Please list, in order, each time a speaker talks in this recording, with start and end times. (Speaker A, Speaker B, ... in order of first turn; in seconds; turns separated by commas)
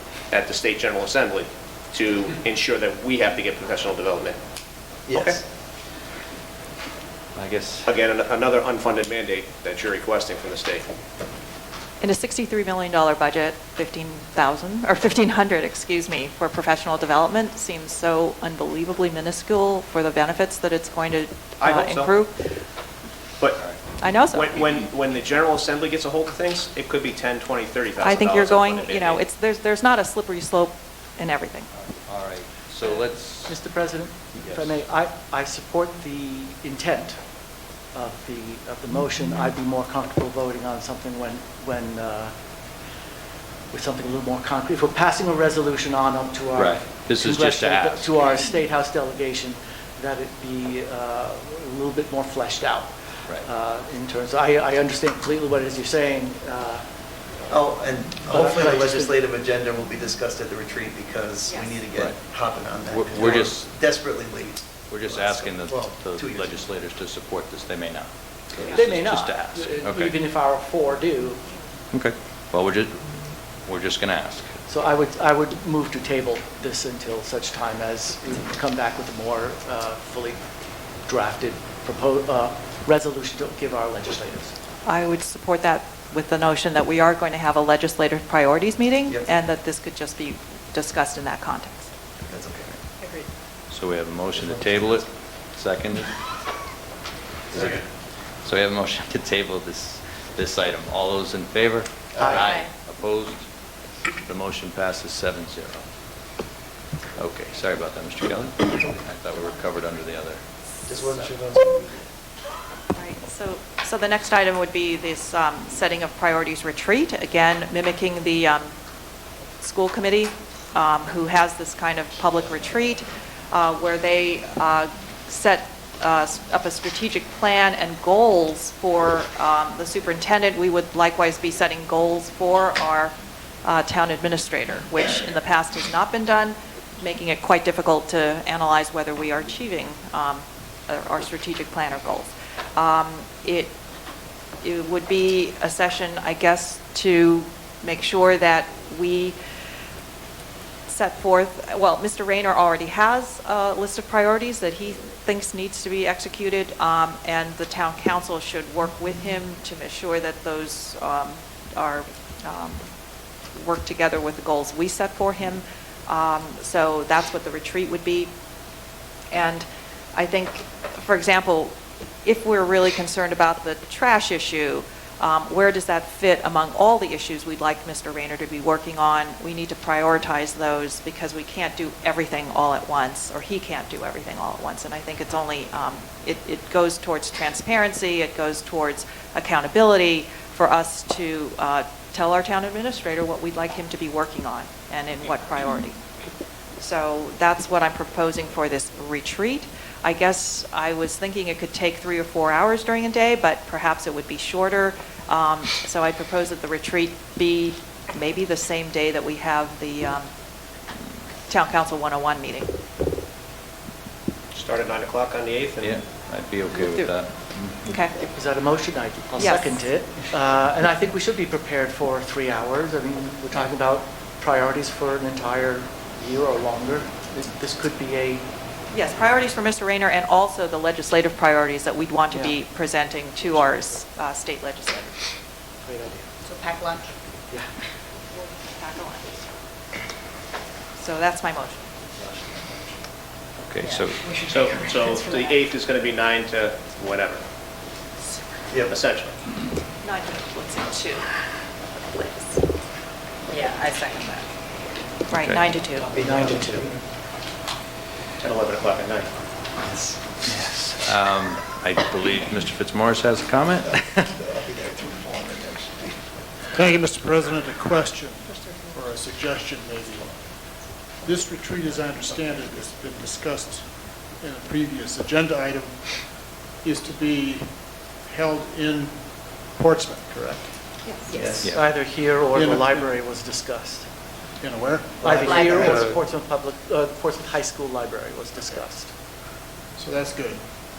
Speaker A: 0.3-4.4, Speaker B: 5.1-5.4, Speaker A: 5.1-5.4, Speaker C: 7.3-7.9, Speaker A: 7.8-11.0, Speaker D: 12.0-22.3, Speaker A: 21.6-22.2, Speaker C: 23.6-23.8, Speaker D: 24.0-24.8, Speaker A: 24.3-29.2, Speaker D: 28.0-31.7, Speaker C: 31.8-33.5, Speaker E: 33.5-37.2, Speaker C: 34.4-34.8, Speaker E: 37.9-42.4, Speaker E: 43.7-56.9, Speaker C: 46.6-48.3, Speaker B: 57.5-66.6, Speaker E: 58.2-59.2, Speaker D: 61.5-61.8, Speaker C: 61.9-62.2, Speaker C: 62.9-63.7, Speaker C: 64.9-70.2, Speaker E: 68.7-71.4, Speaker C: 71.9-74.5, Speaker E: 74.7-80.4, Speaker E: 81.0-84.5, Speaker D: 84.8-91.9, Speaker B: 92.2-92.7, Speaker F: 93.0-93.3, Speaker C: 93.7-96.1, Speaker B: 94.4-95.0, Speaker B: 97.5-97.8, Speaker C: 98.5-103.5, Speaker B: 102.1-102.4, Speaker E: 102.2-102.5, Speaker F: 102.4-102.7, Speaker C: 104.2-105.8, Speaker C: 107.2-110.4, Speaker B: 110.9-112.0, Speaker D: 112.9-118.7, Speaker D: 119.6-133.1, Speaker D: 133.7-143.7, Speaker D: 144.6-149.3, Speaker D: 150.9-162.8, Speaker D: 163.6-168.3, Speaker D: 169.3-196.0, Speaker D: 196.8-210.3, Speaker D: 211.5-212.7, Speaker A: 214.5-216.0, Speaker C: 215.8-217.8, Speaker D: 216.7-217.1, Speaker D: 217.8-218.1, Speaker E: 218.1-228.5, Speaker D: 219.4-219.8, Speaker D: 228.9-235.2, Speaker E: 232.3-232.6, Speaker E: 233.4-234.0, Speaker E: 235.8-236.3, Speaker F: 236.4-237.1, Speaker D: 238.3-239.4, Speaker D: 241.0-241.9, Speaker E: 242.2-242.9, Speaker C: 243.6-244.4, Speaker F: 243.8-245.7, Speaker A: 244.4-247.4, Speaker A: 248.8-249.4, Speaker D: 250.0-251.3, Speaker D: 252.1-252.6, Speaker F: 253.5-254.4, Speaker D: 255.3-256.1, Speaker C: 255.3-255.7, Speaker B: 256.1-257.0, Speaker E: 256.1-257.0, Speaker A: 258.4-259.4, Speaker B: 259.9-260.1, Speaker C: 260.4-264.3, Speaker B: 263.9-266.2, Speaker G: 266.7-270.4, Speaker F: 268.5-269.0, Speaker G: 271.2-273.9, Speaker G: 274.4-276.0, Speaker G: 276.8-277.7, Speaker G: 278.3-280.8, Speaker D: 281.0-281.3, Speaker F: 281.3-281.6, Speaker B: 281.4-281.7, Speaker E: 281.6-284.1, Speaker G: 282.5-283.1, Speaker G: 284.6-286.1, Speaker B: 285.2-286.0, Speaker E: 285.2-289.1, Speaker F: 285.4-285.7, Speaker G: 290.0-290.6